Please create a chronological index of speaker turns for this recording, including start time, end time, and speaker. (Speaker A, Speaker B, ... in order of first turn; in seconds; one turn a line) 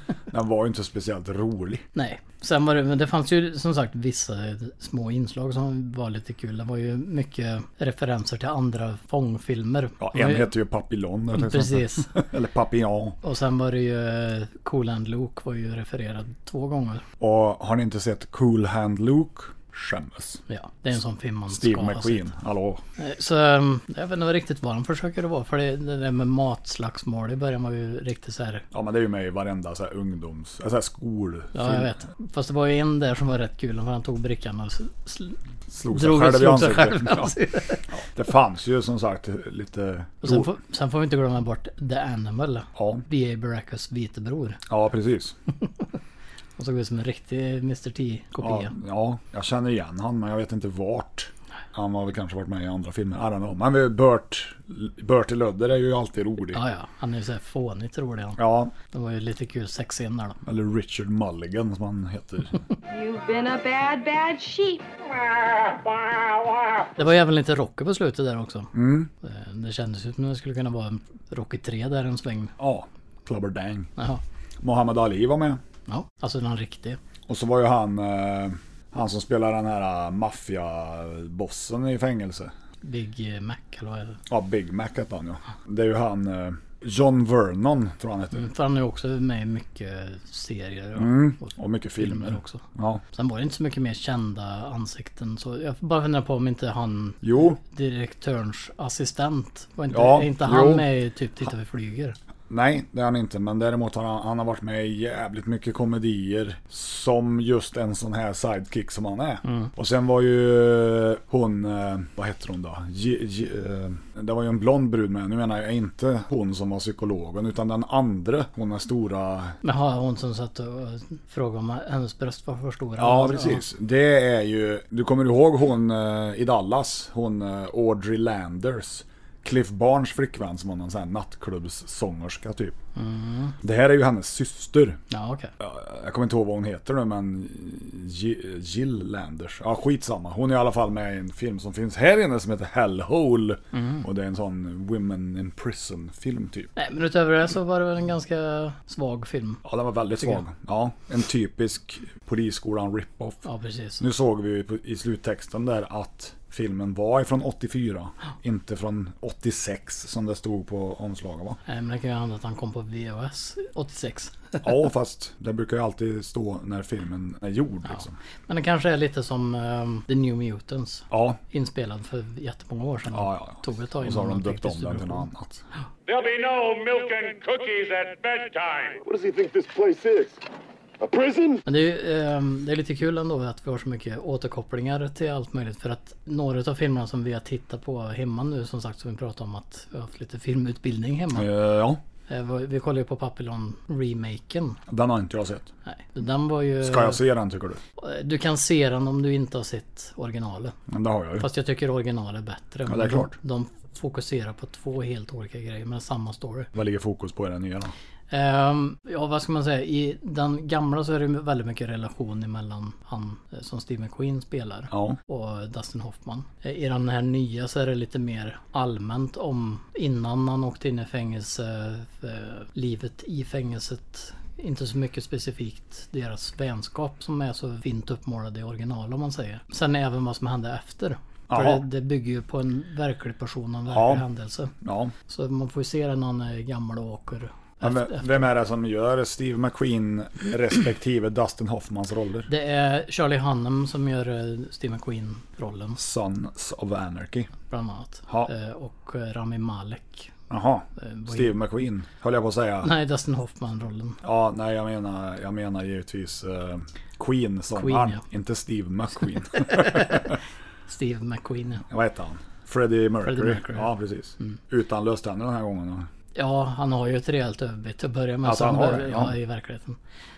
Speaker A: 0.3-1.9
Speaker B: 1.9-10.5
Speaker A: 10.0-13.2
Speaker B: 11.3-12.1
Speaker B: 13.2-17.0
Speaker A: 17.2-20.4
Speaker B: 20.5-22.3
Speaker A: 21.5-22.8
Speaker B: 23.0-28.6
Speaker A: 28.7-31.9
Speaker B: 31.5-35.4
Speaker A: 35.7-37.4
Speaker B: 35.9-37.9
Speaker A: 37.9-40.5
Speaker B: 40.2-44.6
Speaker A: 42.8-43.0
Speaker A: 44.7-45.4
Speaker B: 46.6-48.8
Speaker A: 48.4-56.6
Speaker B: 56.5-60.4
Speaker A: 58.4-58.7
Speaker A: 60.5-62.6
Speaker C: 62.9-64.9
Speaker B: 67.0-72.5
Speaker A: 68.7-69.1
Speaker A: 72.6-73.9
Speaker A: 74.6-75.6
Speaker B: 75.9-77.0
Speaker A: 77.3-82.5
Speaker B: 82.8-84.2
Speaker A: 84.3-88.5
Speaker B: 88.3-102.2
Speaker A: 91.0-93.0
Speaker A: 97.2-97.6
Speaker A: 99.9-100.9
Speaker A: 102.5-119.6
Speaker B: 109.5-109.7
Speaker B: 119.6-123.6
Speaker A: 123.0-132.8
Speaker B: 133.0-133.6
Speaker A: 133.6-135.0
Speaker B: 135.1-135.5
Speaker A: 135.6-146.7
Speaker B: 143.7-144.1
Speaker B: 146.8-149.6
Speaker A: 149.7-153.4
Speaker B: 153.4-154.0
Speaker A: 154.0-161.6
Speaker B: 161.7-164.7
Speaker A: 164.6-168.2
Speaker B: 167.9-175.3
Speaker A: 171.1-171.4
Speaker A: 173.1-175.6
Speaker D: 176.1-179.0
Speaker E: 179.0-180.4
Speaker E: 181.0-181.6
Speaker B: 181.7-191.5
Speaker A: 191.3-192.0
Speaker B: 192.3-194.8
Speaker A: 194.9-195.7
Speaker B: 195.9-197.2
Speaker A: 196.8-197.8
Speaker B: 198.0-200.8
Speaker A: 200.9-201.5
Speaker B: 201.4-206.7
Speaker A: 202.9-203.3
Speaker A: 206.7-207.9
Speaker B: 208.3-234.7
Speaker A: 214.9-215.2
Speaker A: 231.5-231.9
Speaker A: 233.9-234.2
Speaker A: 234.8-235.1
Speaker B: 235.3-238.5
Speaker A: 237.8-242.5
Speaker B: 242.5-246.0
Speaker A: 246.0-247.5
Speaker B: 247.7-250.3
Speaker A: 250.5-252.9
Speaker B: 251.0-251.6
Speaker B: 252.8-254.2
Speaker A: 254.2-260.4
Speaker B: 257.8-258.2
Speaker B: 259.6-260.4
Speaker B: 260.9-261.9
Speaker A: 261.9-266.1
Speaker B: 263.2-263.9
Speaker B: 266.4-270.0
Speaker A: 268.4-269.4